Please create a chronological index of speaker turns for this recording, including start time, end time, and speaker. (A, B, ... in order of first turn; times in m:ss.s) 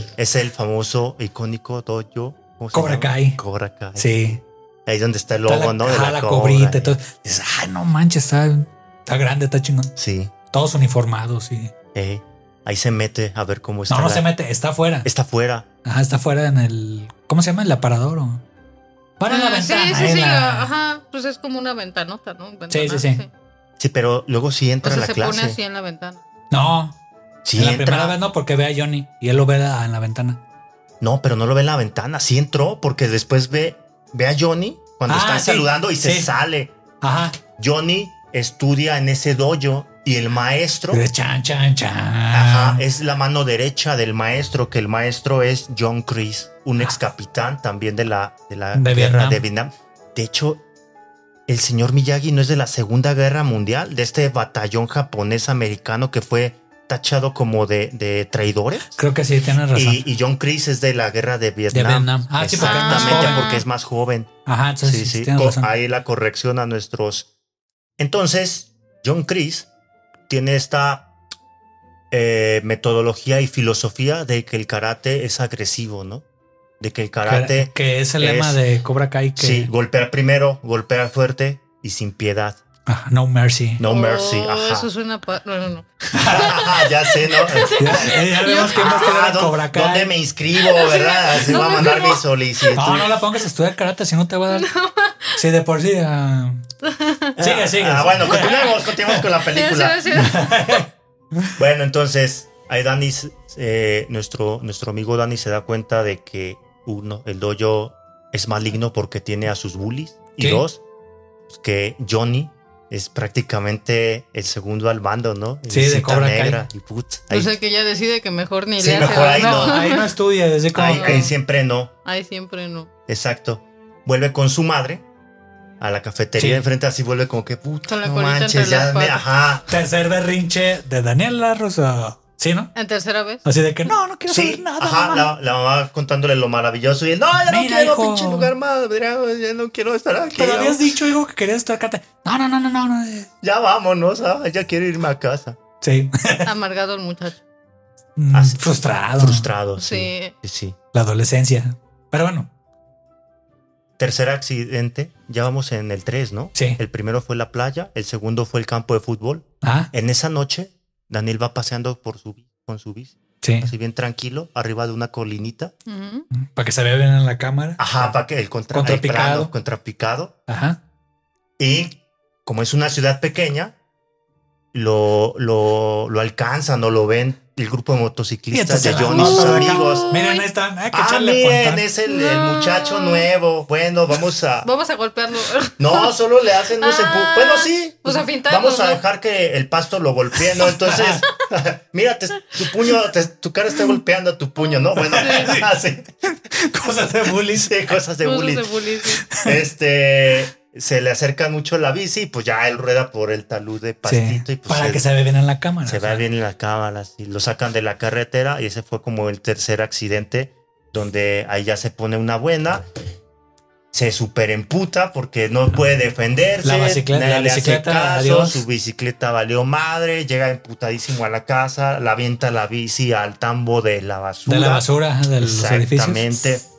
0:00.2-0:07.0 A
0:02.7-0:03.4 B
0:04.0-0:04.4 B
0:05.5-0:09.9 B
0:10.0-0:10.3 A
0:10.5-0:11.7 B
0:12.0-0:14.3 A
0:13.9-0:15.1 B
0:15.0-0:15.7 A
0:15.8-0:18.4 B
0:19.2-0:20.7 B
0:19.3-0:23.3 C
0:22.7-0:23.2 B
0:23.8-0:25.6 A
0:24.8-0:26.2 C
0:26.5-0:27.0 B
0:27.4-0:28.2 A
0:27.6-0:30.4 B
0:31.0-0:36.7 A
0:35.1-0:36.3 B
0:37.0-0:37.4 B
0:37.6-0:41.0 A
0:40.9-0:42.8 B
0:42.3-0:50.6 A
0:48.8-0:49.4 B
0:51.5-0:59.0 A
0:59.0-1:00.0 B
0:59.7-1:07.3 A
1:01.7-1:03.5 B
1:02.6-1:03.6 C
1:04.5-1:05.7 B
1:08.0-1:09.7 A
1:10.3-1:11.1 A
1:12.1-1:16.2 A
1:16.8-1:18.6 A
1:17.2-1:19.7 B
1:19.4-1:22.6 A
1:22.9-1:23.8 B
1:23.8-1:24.9 A
1:23.9-1:29.2 C
1:26.1-1:26.5 B
1:26.3-1:27.8 A
1:27.8-1:30.1 B
1:28.5-1:33.1 A
1:30.6-1:32.8 C
1:32.8-1:34.7 B
1:34.5-1:35.4 C
1:35.4-1:36.6 B
1:36.8-1:37.3 C
1:37.4-1:40.0 A
1:37.4-1:39.2 B
1:38.2-1:38.8 C
1:39.5-1:40.6 C
1:40.2-1:41.5 B
1:41.6-1:50.8 A
1:50.4-1:50.6 B
1:51.5-1:57.5 A
1:55.7-1:56.6 B
1:57.3-2:00.1 C
1:58.8-1:59.9 A
1:59.0-2:01.2 B
2:00.7-2:01.9 A
2:00.9-2:01.3 C
2:02.0-2:02.9 C
2:03.1-2:05.0 A
2:05.8-2:09.7 A
2:06.4-2:06.6 B
2:07.9-2:09.2 C
2:09.7-2:12.7 B
2:12.8-2:13.4 C
2:13.4-2:15.3 B
2:14.3-2:20.9 A
2:17.5-2:18.5 B
2:20.4-2:23.3 B
2:23.4-2:25.6 A
2:25.8-2:26.5 B
2:26.4-2:27.4 C
2:28.2-2:29.5 B
2:28.3-2:28.6 A
2:29.2-2:30.8 A
2:29.8-2:30.3 C
2:30.9-2:32.5 B
2:34.0-2:45.7 A
2:36.6-2:36.8 B
2:39.6-2:39.9 B
2:43.4-2:43.7 B
2:45.9-2:46.3 C
2:46.3-2:48.2 B
2:47.8-2:50.3 A
2:48.7-2:49.5 B
2:50.5-2:50.8 B
2:51.6-2:53.7 A
2:54.7-3:00.1 A
2:58.5-3:01.8 B
2:59.1-3:00.4 C
3:00.9-3:04.7 A
3:02.1-3:03.3 C
3:04.6-3:06.1 C
3:05.8-3:16.1 A
3:06.8-3:09.0 C
3:10.9-3:11.2 B
3:15.1-3:15.7 B
3:15.2-3:15.5 C
3:16.3-3:17.8 B
3:17.5-3:18.7 A
3:18.2-3:19.2 C
3:19.4-3:25.0 A
3:24.0-3:26.3 B
3:25.8-3:32.8 A
3:33.9-3:44.9 A
3:36.6-3:38.6 B
3:44.5-3:46.5 B
3:45.4-3:46.6 A